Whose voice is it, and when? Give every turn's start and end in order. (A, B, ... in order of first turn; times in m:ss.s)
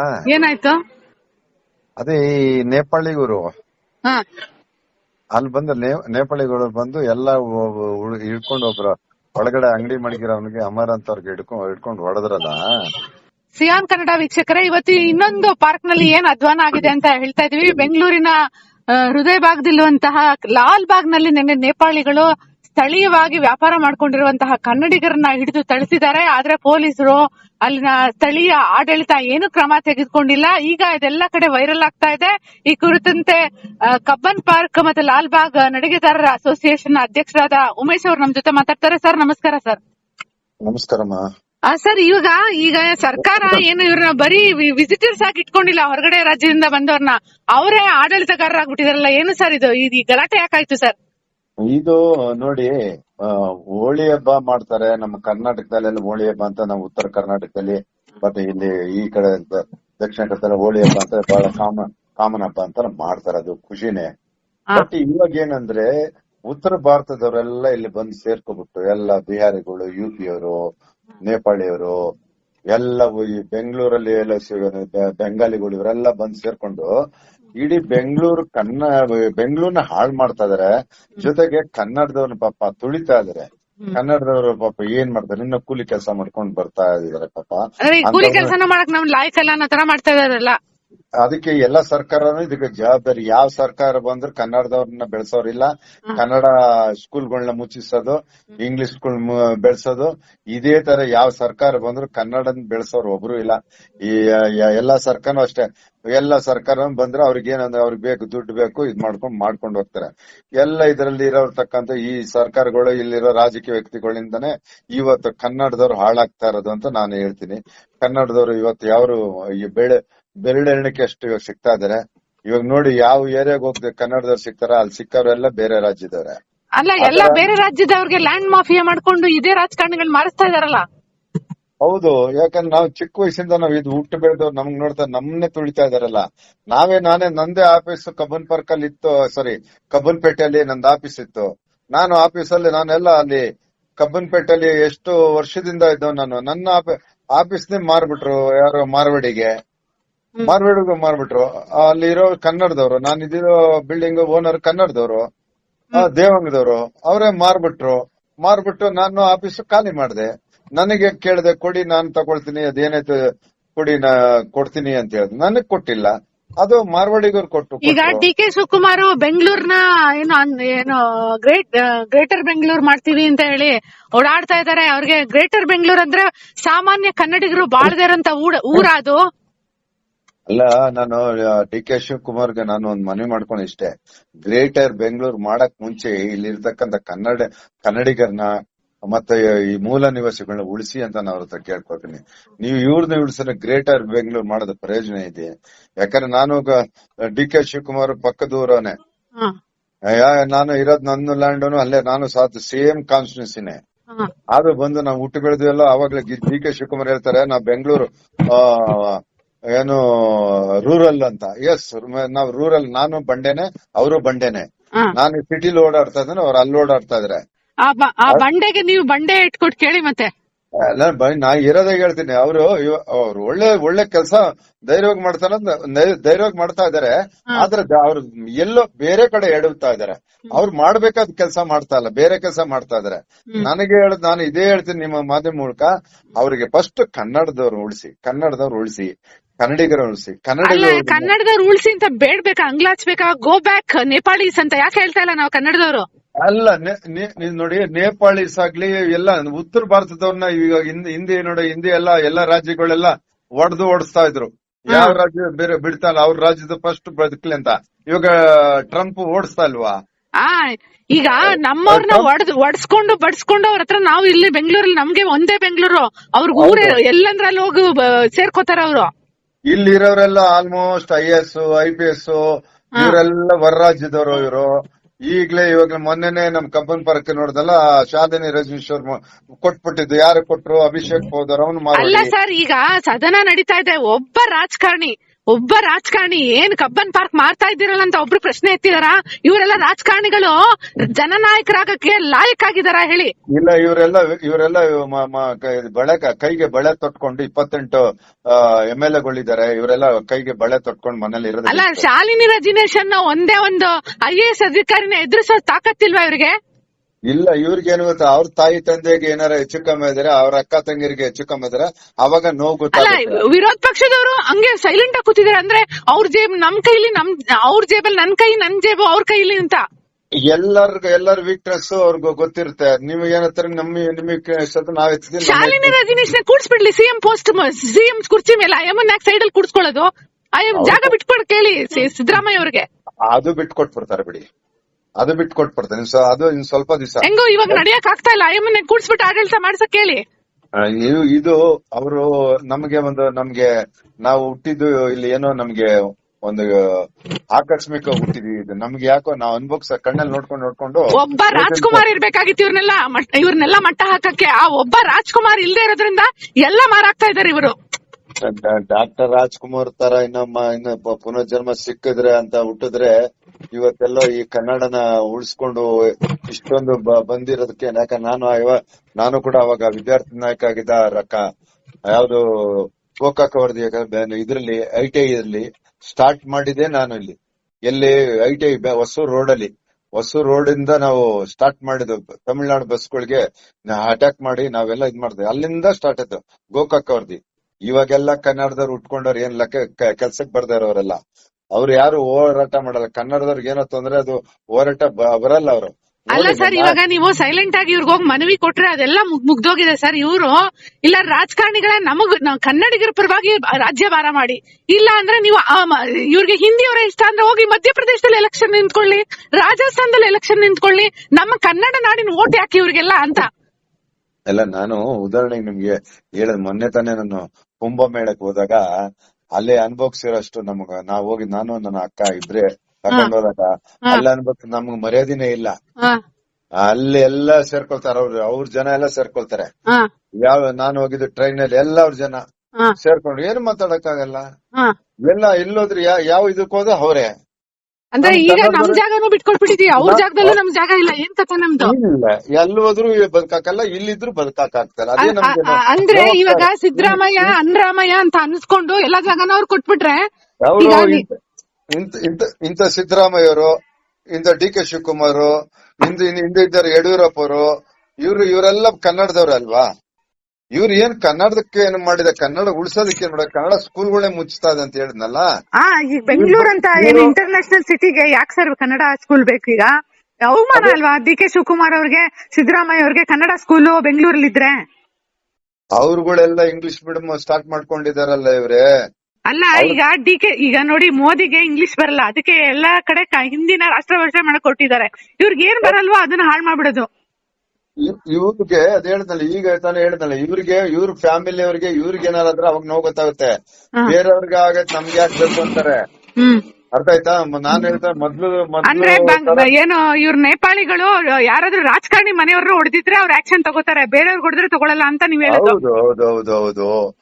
0:00.3-0:00.8 A
0:02.0-0:03.4 B
0:05.4-0:12.6 B
0:13.6-0:18.3 A
0:19.1-0:33.4 A
0:34.0-0:39.8 A
0:40.6-0:41.2 B
0:41.7-0:50.9 A
0:43.2-0:43.6 B
0:51.7-0:52.7 B
0:53.3-1:04.1 B
1:04.8-1:05.9 B
1:06.5-1:10.6 B
1:11.2-1:11.9 B
1:12.7-1:16.9 B
1:17.6-1:20.7 B
1:21.2-1:28.5 B
1:27.8-1:30.5 A
1:31.2-1:45.6 B
1:46.2-2:02.0 B
2:02.5-2:06.4 B
2:06.8-2:10.8 A
2:07.0-2:07.4 B
2:11.8-2:16.2 B
2:16.7-2:23.4 B
2:24.0-2:29.5 B
2:30.4-2:35.2 B
2:35.9-2:43.2 B
2:43.8-2:48.2 B
2:47.8-2:59.2 A
3:00.5-3:03.9 B
3:04.4-3:08.5 B
3:09.1-3:15.5 B
3:16.0-3:16.7 B
3:17.4-3:18.9 B
3:20.1-3:23.8 B
3:24.5-3:29.2 B
3:29.8-3:34.6 B
3:35.2-3:37.4 B
3:37.9-3:40.3 A
3:41.0-3:59.1 B
3:59.6-4:01.3 B
4:00.6-4:06.0 A
4:06.4-4:19.9 B
4:14.9-4:15.2 A
4:20.4-4:29.1 A
4:21.4-4:22.2 B
4:26.6-4:27.0 B
4:29.7-4:32.4 B
4:33.0-4:34.7 B
4:35.3-4:42.3 B
4:41.9-4:50.5 A
4:51.2-4:53.3 A
4:53.5-5:02.0 B
5:01.6-5:06.5 A
5:07.3-5:13.3 B
5:13.0-5:19.8 A
5:20.5-5:25.9 B
5:25.4-5:30.1 A
5:30.6-5:32.8 A
5:30.8-5:31.1 B
5:33.3-5:34.4 B
5:35.2-5:37.8 B
5:37.2-5:40.2 A
5:40.8-5:43.7 B
5:44.2-5:45.9 B
5:47.6-5:52.0 B
5:51.2-5:57.7 A
5:58.5-6:03.1 B
6:03.7-6:05.9 B
6:06.5-6:11.4 B
6:12.1-6:17.4 B
6:17.9-6:31.2 B
6:31.8-6:37.0 B
6:36.3-6:40.6 A
6:41.1-6:53.5 A
6:54.5-6:58.8 B
6:59.6-7:05.7 B
7:06.8-7:09.7 B
7:10.4-7:12.4 B
7:13.0-7:14.4 B
7:15.3-7:17.3 B
7:18.1-7:21.9 A
7:18.2-7:19.0 B
7:20.0-7:20.6 B
7:21.8-7:27.5 B
7:25.2-7:30.2 A
7:30.6-7:31.3 B
7:30.8-7:31.2 A
7:31.9-7:33.7 B
7:34.3-7:35.5 B
7:36.0-7:37.6 B
7:38.2-7:39.8 B
7:40.8-7:45.4 B
7:45.8-7:49.9 A
7:46.4-7:47.3 B
7:50.5-7:54.7 A
7:56.0-7:58.8 B
7:59.5-8:07.1 A
8:08.0-8:13.5 B
8:14.0-8:16.0 B
8:16.9-8:19.7 B
8:18.9-8:25.8 A
8:25.5-8:26.9 B